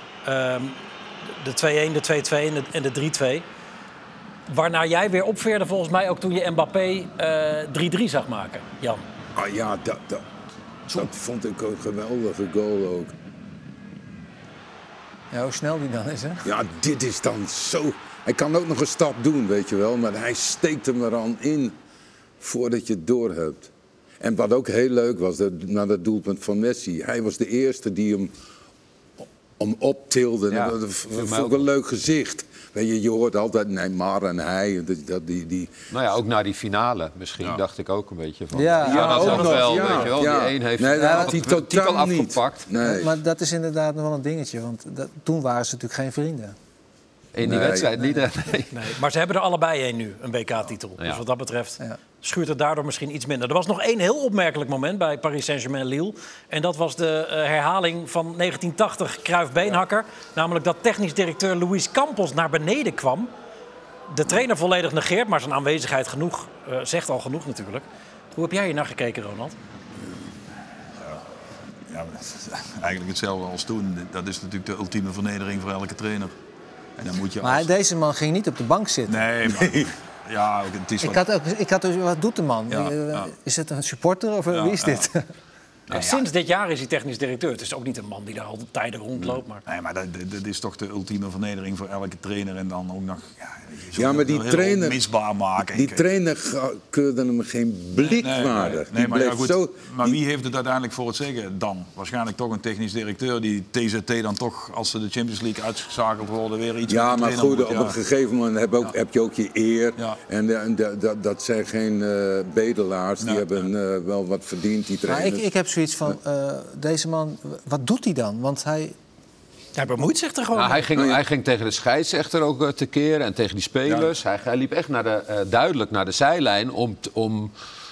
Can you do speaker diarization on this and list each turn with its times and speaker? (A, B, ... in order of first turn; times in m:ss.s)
0:00.2-0:03.4 A
0:04.5-0:09.0 A
0:09.3-0:10.2 B
0:10.9-0:13.1 B
0:15.3-0:16.4 C
0:16.4-0:21.8 B
0:22.4-0:28.3 B
0:29.6-0:35.7 B
0:30.5-0:31.7 D
0:35.9-0:42.7 D
0:38.5-0:39.5 C
0:38.9-0:43.2 B
0:39.0-0:40.0 E
0:41.0-0:41.3 C
0:42.8-0:46.5 C
0:47.3-0:48.9 D
0:47.4-0:48.0 B
0:48.7-1:03.3 A
1:04.1-1:09.6 A
1:11.9-1:16.3 E
1:17.0-1:17.7 E
1:17.4-1:19.3 C
1:19.1-1:21.2 E
1:21.0-1:25.3 C
1:22.7-1:23.3 E
1:24.5-1:25.1 E
1:25.9-1:26.2 E
1:25.9-1:29.6 A
1:29.6-1:36.0 E
1:33.9-1:35.0 B
1:35.7-1:40.2 B
1:38.0-1:48.0 E
1:46.9-1:55.4 B
1:53.2-1:53.6 E
1:55.1-1:58.9 C
1:59.8-2:00.8 A
2:00.5-2:07.5 D
2:00.9-2:01.2 B